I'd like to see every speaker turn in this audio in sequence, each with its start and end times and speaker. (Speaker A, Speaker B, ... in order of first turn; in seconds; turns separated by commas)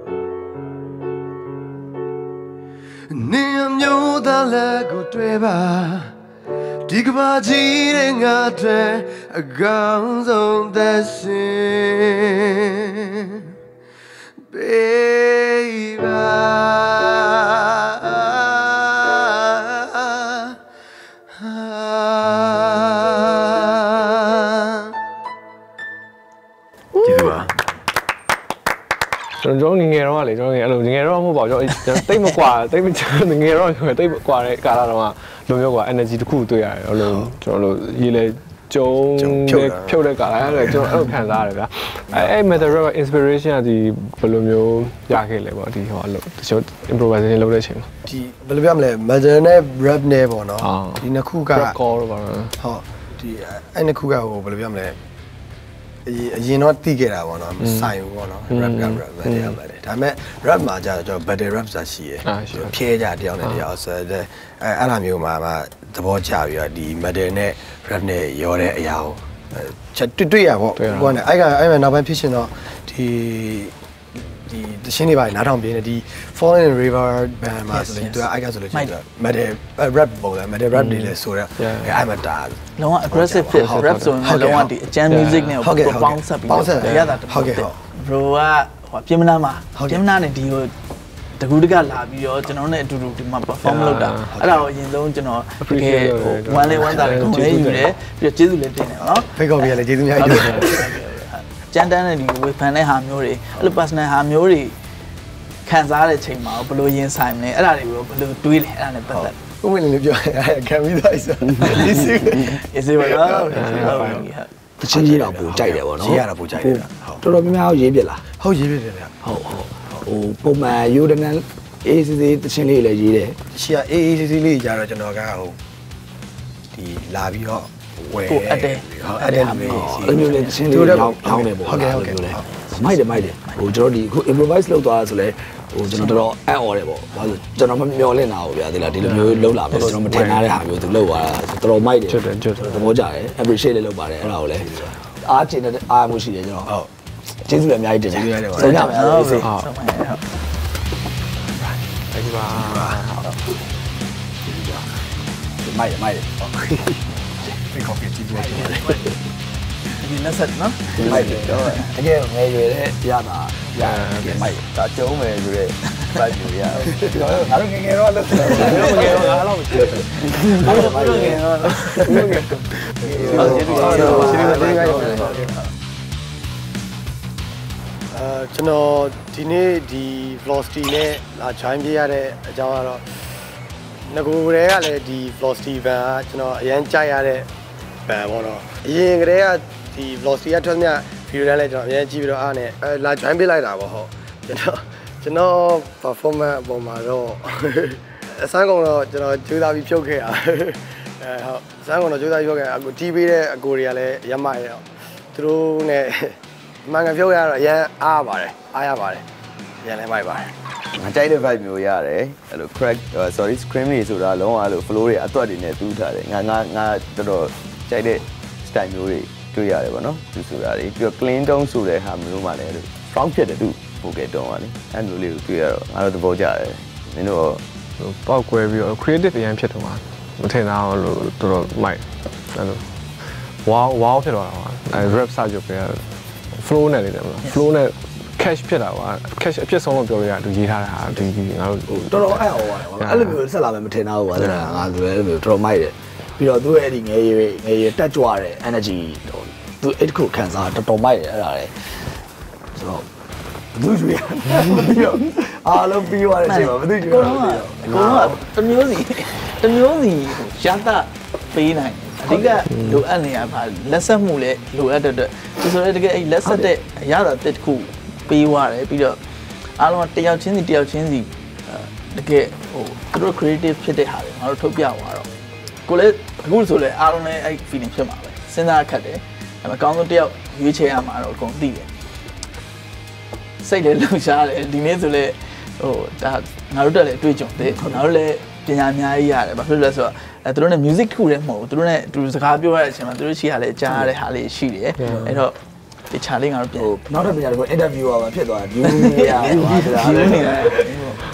Speaker A: 3.1-6.1, Speaker B: 3.2-6.0, Speaker B: 6.9-7.4, Speaker A: 6.9-13.4, Speaker B: 9.2-9.6, Speaker A: 14.5-20.5, Speaker A: 21.4-24.7, Speaker C: 27.0-27.4, Speaker D: 29.4-47.9, Speaker B: 39.2-40.9, Speaker B: 42.1-42.7, Speaker B: 48.1-51.8, Speaker D: 50.6-52.6, Speaker B: 52.6-55.0, Speaker B: 56.1-73.7, Speaker D: 57.6-57.9, Speaker D: 58.5-59.6, Speaker D: 62.2-62.8, Speaker D: 70.8-71.2, Speaker B: 74.2-84.7, Speaker C: 77.7-79.0, Speaker D: 80.7-82.0, Speaker C: 82.8-90.7, Speaker D: 83.5-84.2, Speaker D: 85.1-85.6, Speaker B: 85.6-87.8, Speaker D: 86.6-87.0, Speaker B: 89.8-90.0, Speaker C: 91.3-104.8, Speaker D: 93.6-94.3, Speaker B: 94.3-94.7, Speaker D: 95.6-97.9, Speaker B: 99.3-101.0, Speaker D: 100.3-100.7, Speaker C: 105.7-109.4, Speaker B: 109.1-114.2, Speaker C: 111.7-114.5, Speaker D: 113.5-114.3, Speaker E: 114.8-118.2, Speaker B: 114.9-117.2, Speaker B: 118.4-119.1, Speaker E: 119.2-123.4, Speaker B: 123.5-125.6, Speaker B: 126.7-132.4, Speaker C: 128.3-130.8, Speaker E: 129.7-146.7, Speaker C: 132.4-133.6, Speaker C: 135.9-136.2, Speaker D: 139.0-140.4, Speaker D: 142.1-142.9, Speaker B: 144.6-144.9, Speaker E: 147.4-149.5, Speaker B: 148.1-149.0, Speaker C: 148.6-150.2, Speaker D: 152.1-153.3, Speaker B: 152.5-153.2, Speaker E: 154.4-154.9, Speaker E: 155.6-156.3, Speaker B: 156.4-157.0, Speaker B: 157.6-159.0, Speaker C: 158.4-159.1, Speaker C: 160.0-161.9, Speaker E: 161.0-164.6, Speaker F: 161.0-161.8, Speaker D: 163.8-164.6, Speaker F: 164.8-167.0, Speaker E: 166.8-169.4, Speaker C: 168.5-169.4, Speaker D: 168.6-170.7, Speaker C: 170.3-175.6, Speaker E: 170.4-171.5, Speaker D: 172.0-172.5, Speaker D: 173.0-174.9, Speaker E: 173.1-174.7, Speaker B: 173.3-175.5, Speaker B: 178.1-183.1, Speaker B: 184.1-187.5, Speaker B: 188.1-209.2, Speaker B: 209.8-210.5, Speaker F: 211.0-227.6, Speaker D: 228.0-243.4, Speaker E: 241.9-251.9, Speaker D: 244.4-244.9, Speaker E: 252.7-253.1, Speaker E: 253.7-258.5, Speaker C: 256.4-269.2, Speaker E: 262.2-262.6, Speaker E: 266.4-266.7, Speaker C: 269.8-275.3, Speaker C: 275.9-281.9, Speaker C: 283.6-295.6, Speaker E: 287.7-288.0, Speaker E: 295.0-295.4, Speaker C: 296.1-297.0, Speaker E: 296.8-300.9, Speaker C: 298.9-301.2